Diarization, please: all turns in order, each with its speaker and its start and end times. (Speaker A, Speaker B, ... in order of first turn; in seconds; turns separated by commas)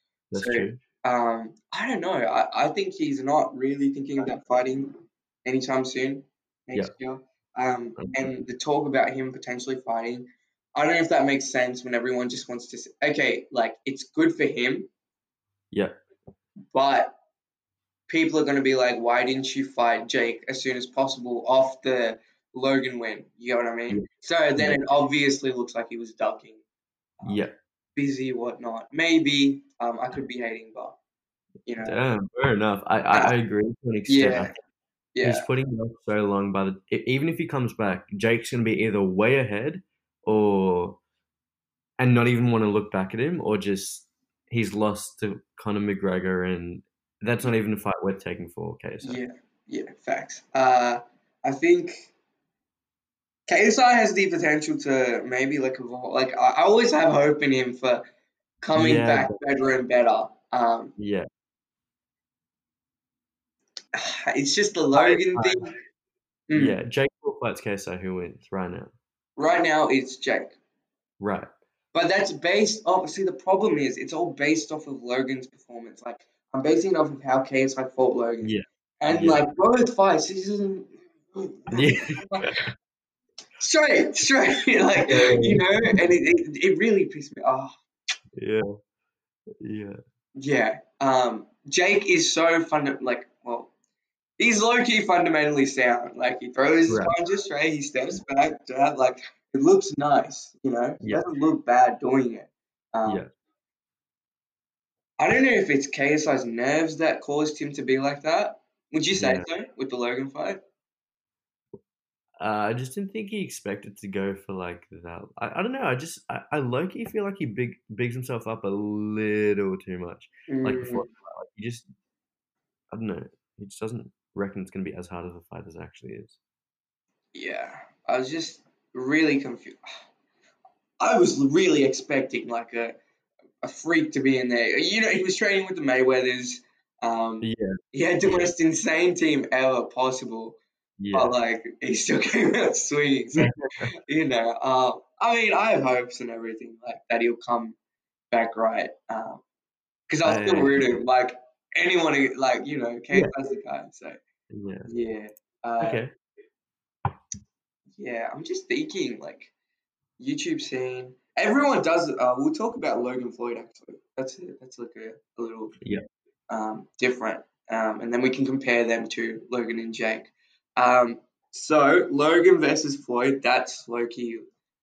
Speaker A: 0.3-0.8, Speaker B: 0.3-4.9, Speaker B: 5.4-14.9, Speaker A: 8.0-8.4, Speaker B: 16.7-17.1, Speaker B: 18.1-26.6, Speaker B: 27.2-31.0, Speaker A: 27.2-27.5, Speaker B: 31.6-32.0, Speaker A: 31.8-34.5, Speaker B: 34.1-34.5, Speaker B: 35.1-35.5, Speaker A: 35.2-41.0, Speaker A: 42.0-49.2, Speaker B: 49.0-52.1, Speaker B: 53.5-58.0, Speaker B: 58.6-60.9, Speaker A: 58.7-59.4, Speaker A: 61.0-61.3, Speaker B: 63.9-65.7, Speaker A: 64.9-65.7, Speaker B: 66.5-66.8, Speaker A: 66.5-68.9, Speaker B: 69.4-70.5, Speaker A: 71.2-71.5, Speaker B: 71.9-82.5, Speaker A: 78.4-79.4, Speaker A: 81.7-82.6, Speaker B: 83.6-87.7, Speaker A: 85.0-86.0, Speaker A: 88.3-88.7, Speaker A: 89.6-90.0, Speaker B: 90.3-93.7, Speaker B: 94.4-103.2, Speaker A: 96.9-97.1, Speaker A: 101.0-101.2, Speaker B: 105.2-110.6, Speaker A: 109.2-109.5, Speaker A: 112.4-121.9, Speaker B: 120.5-121.1, Speaker A: 122.9-126.4, Speaker B: 127.3-129.8, Speaker B: 131.0-133.0, Speaker B: 133.6-140.6, Speaker A: 137.4-138.5, Speaker A: 141.0-141.3, Speaker B: 141.1-147.8, Speaker A: 143.4-143.9, Speaker B: 148.3-149.4, Speaker B: 150.1-154.2, Speaker A: 150.2-150.8, Speaker A: 154.5-154.9, Speaker B: 154.8-156.0, Speaker A: 155.8-156.1, Speaker B: 158.0-159.5, Speaker B: 160.2-165.7, Speaker B: 166.5-174.5